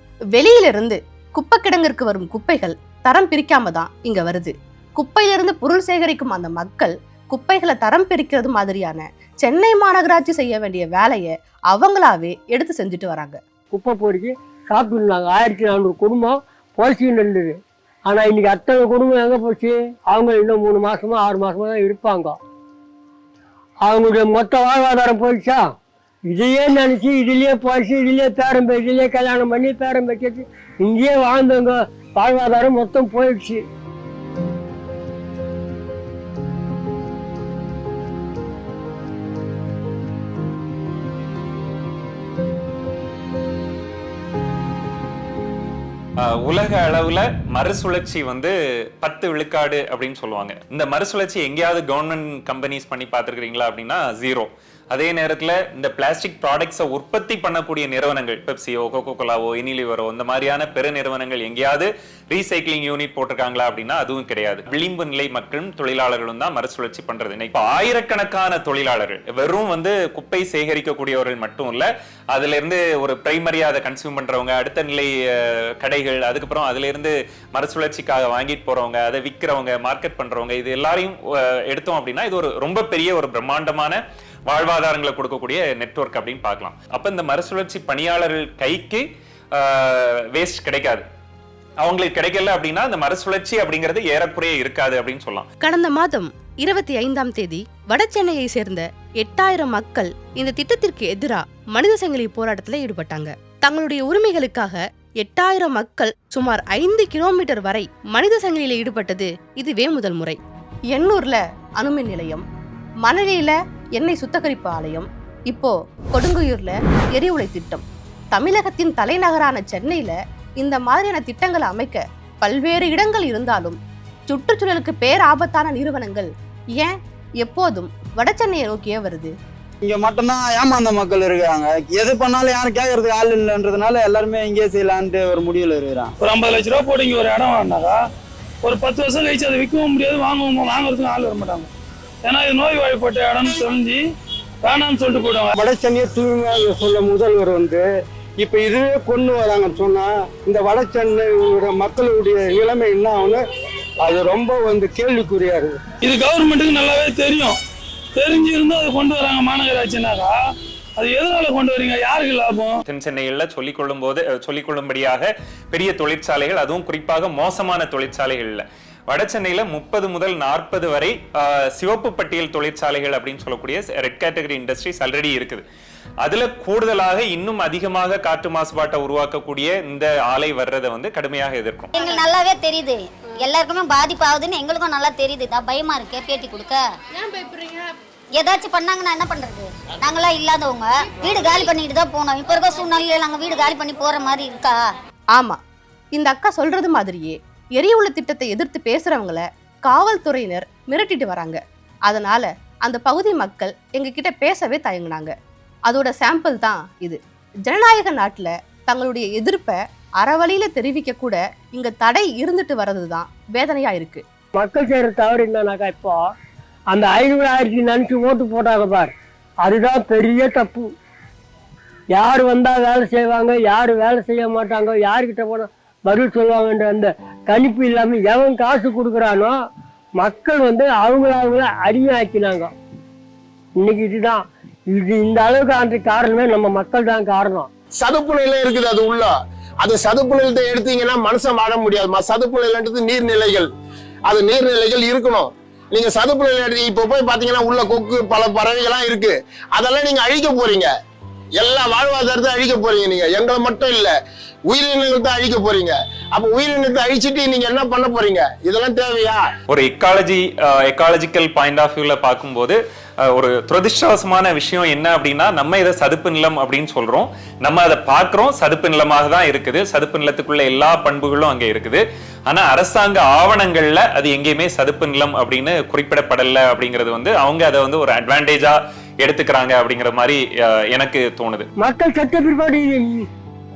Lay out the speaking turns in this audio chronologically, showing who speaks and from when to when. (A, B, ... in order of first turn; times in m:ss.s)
0:00.4-0:13.4 A
0:13.7-0:22.4 B
0:23.8-0:25.6 B
0:26.3-0:33.6 B
0:46.2-1:29.0 C
1:29.6-1:31.0 C
1:31.8-1:35.5 C
1:35.6-1:50.4 A
1:50.9-1:52.4 A
1:53.0-2:09.3 A
2:09.8-2:16.1 D
2:10.0-2:16.0 E
2:16.2-2:18.0 F
2:18.6-2:21.7 F
2:22.2-2:24.0 F
2:24.6-2:25.5 F
2:25.6-2:27.8 E
2:28.4-2:33.4 E
2:34.0-2:35.8 E
2:36.0-2:37.6 F
2:38.2-2:40.3 F
2:41.0-2:42.7 F
2:42.9-2:55.6 C
2:56.2-3:01.9 C
3:02.0-3:06.9 G
3:07.2-3:08.0 A
3:08.4-3:14.8 G
3:16.1-3:25.3 A
3:25.9-3:34.2 A
3:34.6-3:36.2 B
3:36.9-3:40.9 B
3:42.1-3:49.6 B
3:50.2-3:52.7 B
3:53.8-3:57.7 B
3:58.0-4:03.7 H
4:04.3-4:10.9 H
4:11.6-4:14.1 H
4:14.7-4:19.4 H
4:19.7-4:22.8 C
4:23.3-4:41.7 C
4:41.8-4:43.2 B